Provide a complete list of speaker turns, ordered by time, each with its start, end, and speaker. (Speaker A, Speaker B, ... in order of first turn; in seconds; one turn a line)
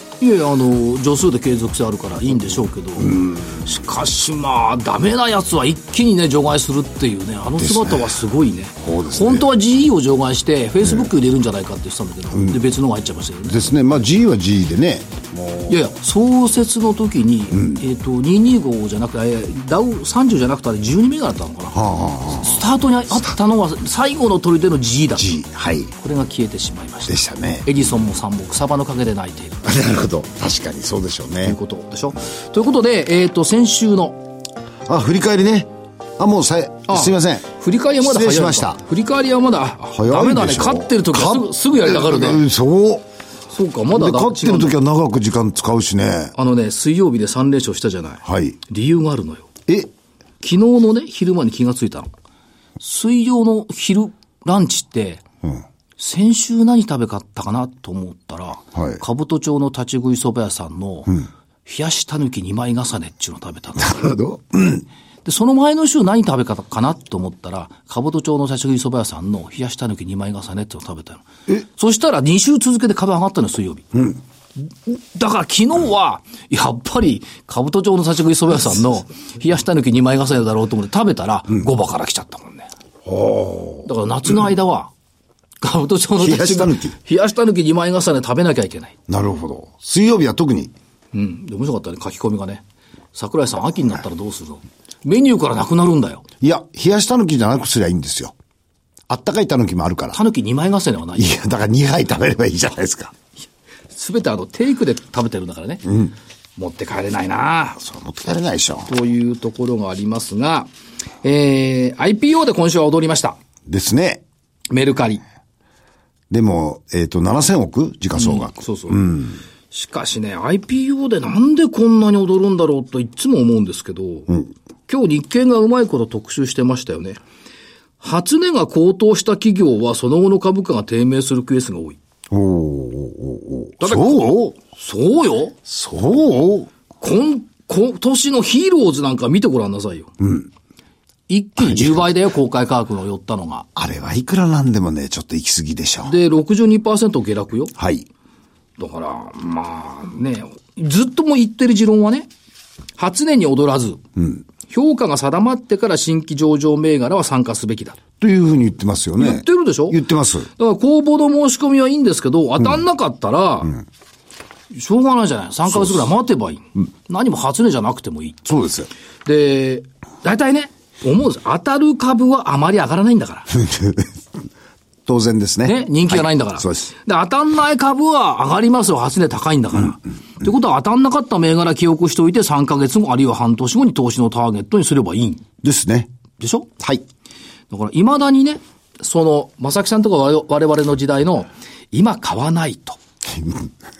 Speaker A: 0.2-13.6
Speaker B: 3.0-3.7
Speaker B: 7.6-8.2
Speaker B: 8.8-9.5
Speaker B: 10.8-11.1
Speaker B: 12.3-12.6
Speaker B: 13.5-15.8
Speaker A: 15.7-21.7
Speaker B: 17.5-17.8
Speaker B: 21.7-22.6
Speaker A: 22.3-25.4
Speaker B: 25.2-25.9
Speaker A: 25.9-29.7
Speaker B: 27.1-27.7
Speaker B: 29.6-31.6
Speaker A: 31.4-34.2
Speaker B: 34.9-37.5
Speaker A: 36.9-42.4
Speaker B: 38.0-38.8
Speaker B: 39.9-43.0
Speaker A: 43.5-44.7
Speaker B: 43.9-46.3
Speaker A: 46.4-49.5
Speaker B: 48.2-48.6
Speaker A: 50.4-52.1
Speaker A: 52.8-55.2
Speaker A: 56.0-64.0
Speaker B: 58.7-59.0
Speaker B: 63.8-64.8
Speaker A: 65.2-73.9
Speaker A: 74.6-82.7
Speaker B: 83.0-83.9
Speaker A: 83.8-84.9
Speaker A: 85.6-88.9
Speaker B: 86.2-86.9
Speaker B: 89.1-90.7
Speaker A: 91.1-92.6
Speaker A: 93.1-96.2
Speaker B: 96.4-98.3
Speaker B: 99.1-100.2
Speaker A: 100.1-101.4
Speaker B: 101.2-103.1
Speaker A: 103.9-105.9
Speaker B: 105.9-106.1
Speaker A: 106.6-107.8
Speaker B: 107.8-108.9
Speaker A: 108.9-110.7
Speaker A: 111.2-113.4
Speaker B: 113.7-114.2
Speaker A: 114.7-115.2
Speaker B: 116.3-119.4
Speaker A: 118.2-119.0
Speaker A: 119.7-124.3
Speaker A: 124.9-127.2
Speaker A: 128.0-132.0
Speaker B: 132.3-134.5
Speaker A: 133.8-135.6
Speaker B: 135.7-136.7
Speaker A: 137.0-140.1
Speaker B: 140.2-140.5
Speaker A: 141.3-143.7
Speaker B: 141.6-142.1
Speaker B: 143.8-146.1
Speaker A: 146.0-147.7
Speaker B: 147.8-148.1
Speaker A: 148.8-152.3
Speaker A: 153.0-154.0
Speaker B: 154.2-154.4
Speaker A: 154.7-158.0
Speaker B: 158.2-160.5
Speaker A: 159.2-160.0
Speaker A: 160.6-163.8
Speaker A: 164.7-168.4
Speaker B: 168.4-168.9
Speaker A: 169.2-173.5
Speaker B: 173.5-174.1
Speaker B: 175.1-176.9
Speaker A: 175.6-185.4
Speaker B: 185.6-186.1
Speaker A: 186.4-186.7
Speaker A: 187.7-193.0
Speaker B: 193.3-193.7